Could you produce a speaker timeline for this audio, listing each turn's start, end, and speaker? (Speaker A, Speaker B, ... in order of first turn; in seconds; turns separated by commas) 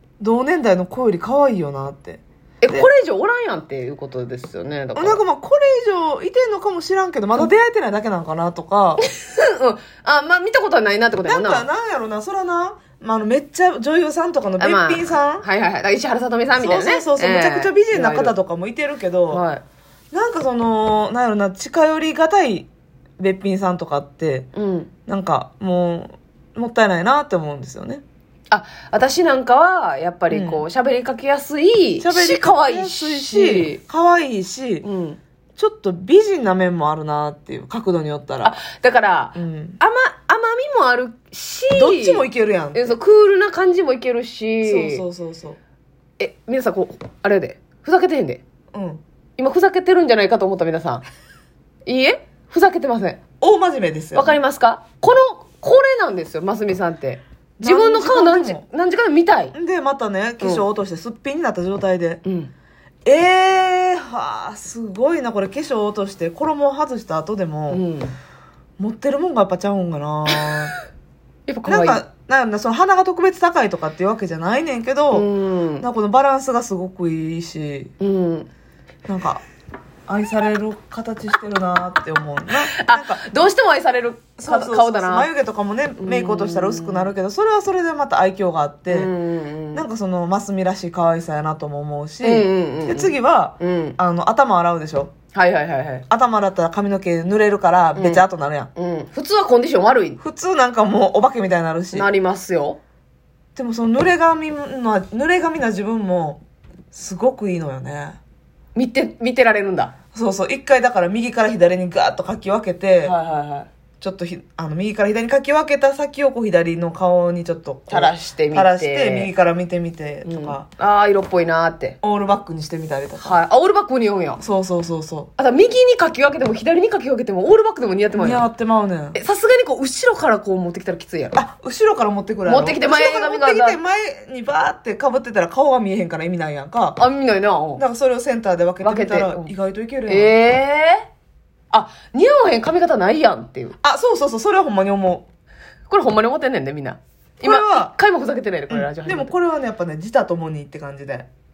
Speaker A: 0.2-2.9, Speaker B: 2.6-5.2, Speaker A: 4.9-9.0, Speaker B: 9.0-11.7, Speaker A: 11.2-15.4, Speaker B: 14.6-18.4, Speaker A: 16.6-19.4, Speaker B: 19.3-19.6, Speaker A: 20.1-24.5, Speaker B: 24.5-24.9, Speaker A: 25.1-28.0, Speaker B: 28.5-33.8, Speaker A: 30.3-30.6, Speaker A: 32.0-34.8, Speaker B: 34.8-35.2, Speaker A: 35.5-38.6, Speaker B: 38.4-45.0, Speaker A: 39.3-39.8, Speaker A: 41.7-43.0, Speaker A: 44.6-45.6, Speaker B: 46.2-48.4, Speaker A: 48.7-49.0, Speaker B: 49.4-51.0, Speaker B: 51.9-53.2, Speaker A: 53.4-54.4, Speaker B: 54.1-59.5, Speaker A: 57.6-58.6, Speaker A: 59.5-62.2, Speaker B: 60.4-60.6, Speaker B: 62.2-62.5, Speaker A: 63.0-67.8, Speaker B: 67.7-68.2, Speaker A: 68.8-70.7, Speaker B: 71.5-72.0, Speaker A: 71.6-75.3, Speaker B: 75.1-75.9, Speaker A: 75.8-77.9, Speaker B: 78.0-78.5, Speaker A: 79.1-79.4, Speaker A: 80.1-83.2, Speaker B: 82.7-85.3, Speaker A: 84.4-89.1, Speaker B: 86.0-87.1, Speaker B: 88.9-89.8, Speaker A: 89.7-95.1, Speaker B: 92.2-94.0, Speaker B: 95.3-96.0, Speaker A: 96.1-98.7, Speaker B: 97.9-98.2, Speaker B: 98.8-100.2, Speaker A: 100.2-102.1, Speaker B: 101.9-102.8, Speaker A: 103.5-106.4, Speaker A: 106.9-108.2, Speaker B: 108.7-109.9, Speaker A: 110.1-113.2, Speaker B: 113.0-113.7, Speaker A: 114.0-120.7, Speaker B: 117.9-119.3, Speaker B: 120.2-122.0, Speaker A: 122.0-123.4, Speaker B: 123.2-124.4, Speaker A: 124.4-125.3, Speaker B: 125.4-128.5, Speaker A: 128.2-129.2, Speaker B: 129.1-131.4, Speaker A: 131.3-137.0, Speaker B: 132.4-133.8, Speaker B: 137.0-137.8, Speaker A: 137.8-140.3, Speaker B: 138.8-139.5, Speaker B: 140.1-141.1, Speaker B: 141.7-143.8, Speaker A: 143.8-145.3, Speaker B: 145.9-149.4, Speaker A: 147.4-147.9, Speaker A: 148.7-151.3